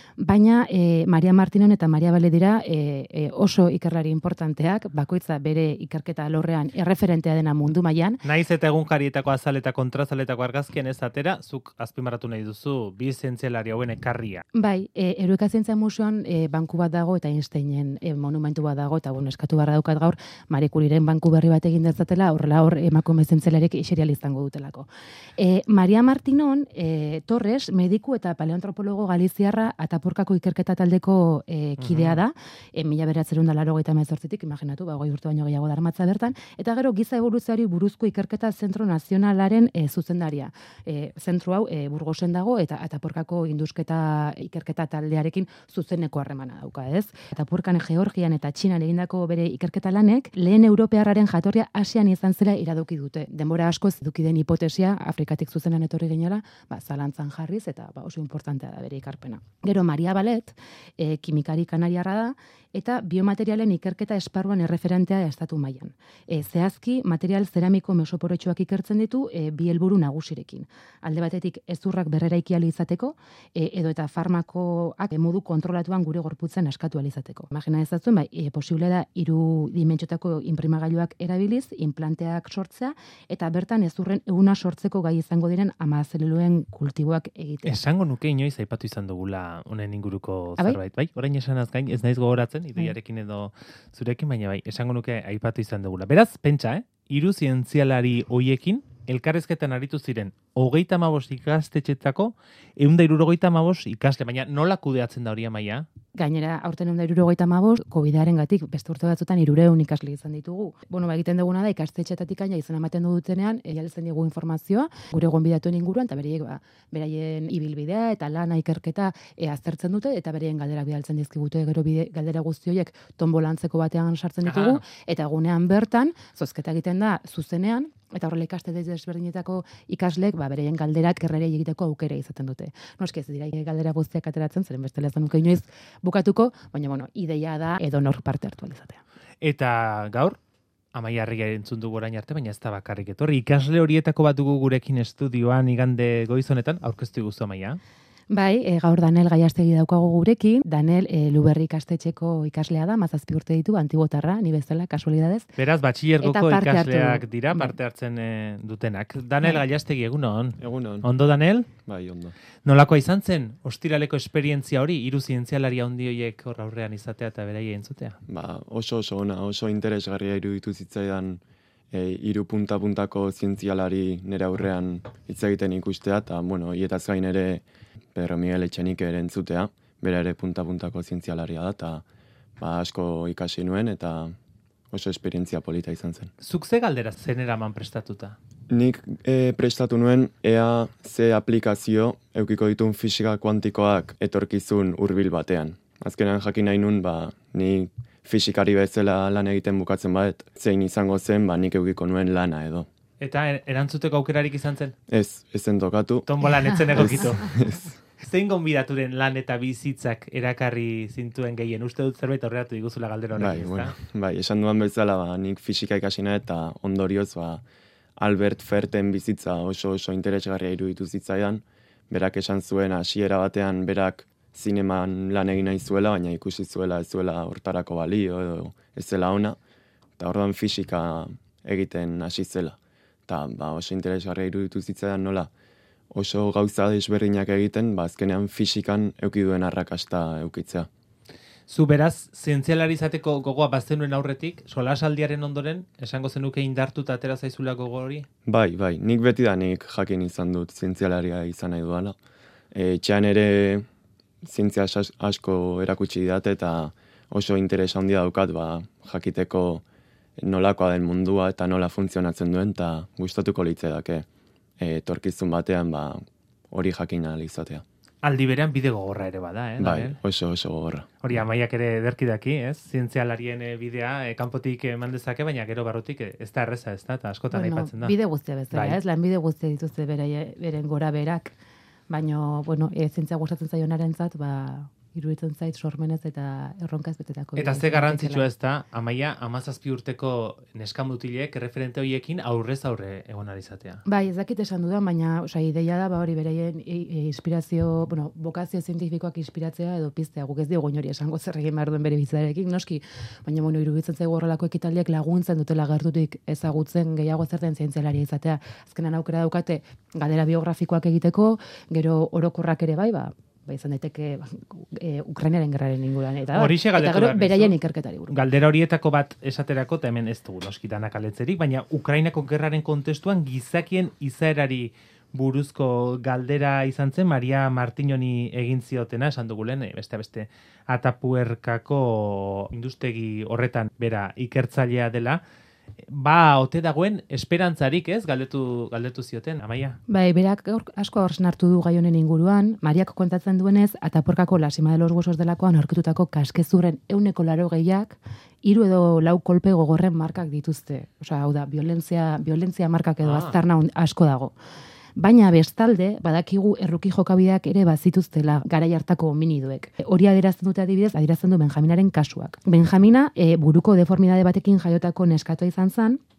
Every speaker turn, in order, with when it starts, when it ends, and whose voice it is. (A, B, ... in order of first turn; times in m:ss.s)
0:00.2-0:08.2 A
0:08.2-0:14.4 B
0:14.5-1:27.8 A
0:31.8-0:32.2 B
1:27.6-1:45.9 B
1:46.1-2:19.0 A
2:04.4-2:04.8 B
2:19.4-2:20.4 B
2:20.9-2:27.8 B
2:28.3-2:35.4 A
2:35.6-2:41.7 B
2:36.2-2:37.7 A
2:40.6-2:41.1 C
2:41.8-2:42.3 C
2:42.6-2:48.2 B
2:48.3-2:51.4 C
2:51.9-3:02.0 C
3:02.6-3:04.3 C
3:04.9-3:06.3 C
3:06.4-3:08.4 B
3:08.7-3:22.9 C
3:23.2-3:24.9 B
3:25.1-3:26.3 C
3:26.3-3:27.6 B
3:26.9-3:27.9 C
3:28.2-3:33.9 B
3:33.4-3:37.6 C
3:38.2-3:49.6 C
3:50.2-3:55.5 C
3:56.1-4:00.9 C
4:01.7-4:08.2 B
4:08.4-4:12.2 C
4:12.7-4:13.8 C
4:14.4-4:19.8 C
4:20.4-4:24.2 C
4:24.8-4:27.8 C
4:28.2-4:30.2 B
4:29.8-4:31.1 C
4:31.2-4:38.1 B
4:37.5-4:41.6 A
4:38.7-4:39.0 B
4:42.1-4:48.5 A
4:47.6-4:54.0 B
4:54.0-5:18.4 A
5:16.5-5:17.8 B
5:18.3-5:35.4 B
5:36.0-5:40.0 B
5:40.1-5:54.5 A
5:53.2-5:53.6 B
5:55.2-6:06.2 A